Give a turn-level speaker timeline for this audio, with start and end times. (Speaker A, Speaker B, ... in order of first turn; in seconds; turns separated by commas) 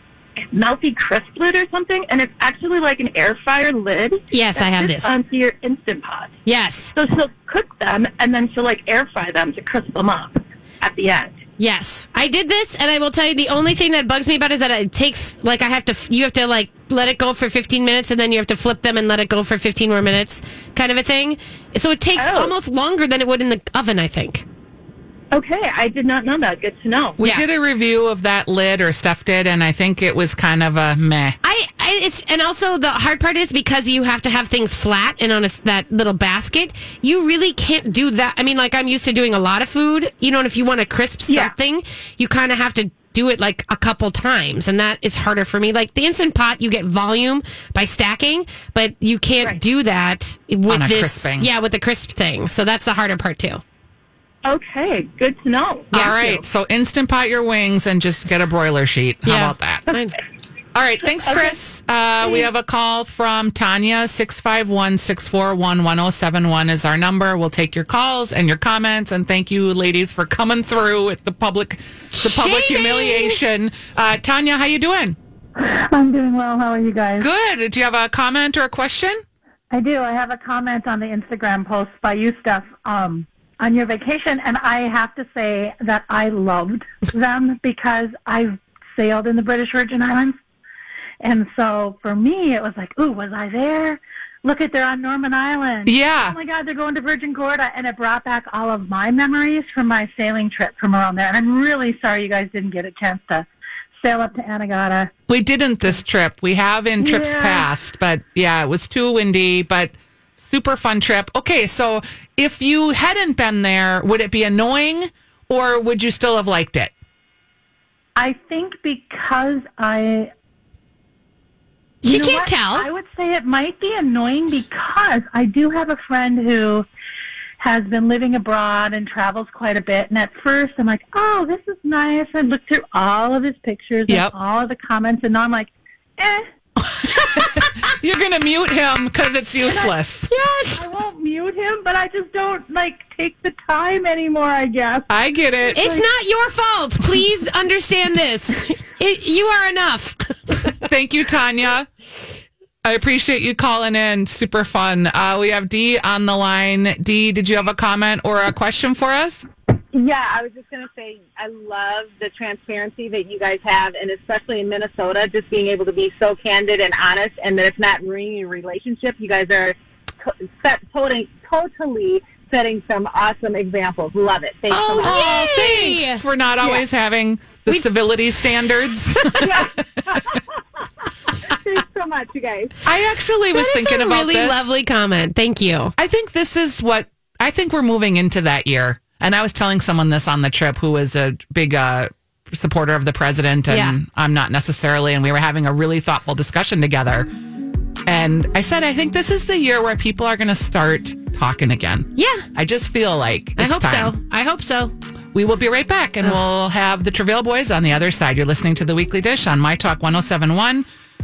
Speaker A: 0.5-6.4, Speaker B: 4.3-5.2, Speaker B: 6.5-6.9, Speaker A: 6.9-11.4, Speaker B: 11.6-24.4, Speaker A: 22.2-22.5, Speaker A: 25.3-27.2, Speaker C: 27.2-31.4, Speaker B: 27.2-27.4, Speaker B: 31.4-53.6, Speaker A: 41.3-41.5, Speaker C: 50.7-51.5, Speaker A: 54.5-56.4, Speaker C: 55.9-59.9, Speaker B: 59.2-60.2, Speaker C: 60.8-75.2, Speaker A: 61.2-61.6, Speaker B: 72.2-73.4, Speaker D: 75.6-77.3, Speaker C: 77.2-79.2, Speaker D: 79.7-90.4, Speaker D: 91.2-105.1, Speaker C: 95.9-96.4, Speaker C: 105.3-116.9, Speaker D: 107.0-107.7, Speaker D: 118.2-120.3, Speaker B: 122.0-122.9, Speaker D: 122.0-126.9, Speaker D: 127.6-136.5, Speaker C: 134.1-134.3, Speaker C: 137.2-140.3, Speaker B: 140.3-140.9, Speaker D: 140.7-145.1, Speaker C: 145.1-145.9, Speaker B: 145.7-150.7, Speaker D: 145.8-146.0, Speaker C: 150.8-151.9, Speaker C: 152.8-159.5, Speaker E: 159.9-175.2, Speaker C: 174.7-179.8, Speaker B: 174.9-176.8, Speaker B: 179.1-179.6, Speaker E: 179.4-180.4, Speaker E: 181.4-182.8, Speaker C: 182.8-184.7, Speaker B: 183.5-185.9, Speaker C: 186.0-197.3, Speaker B: 193.7-194.0, Speaker C: 198.1-204.2, Speaker B: 202.2-202.5, Speaker B: 203.6-204.9, Speaker C: 205.3-210.9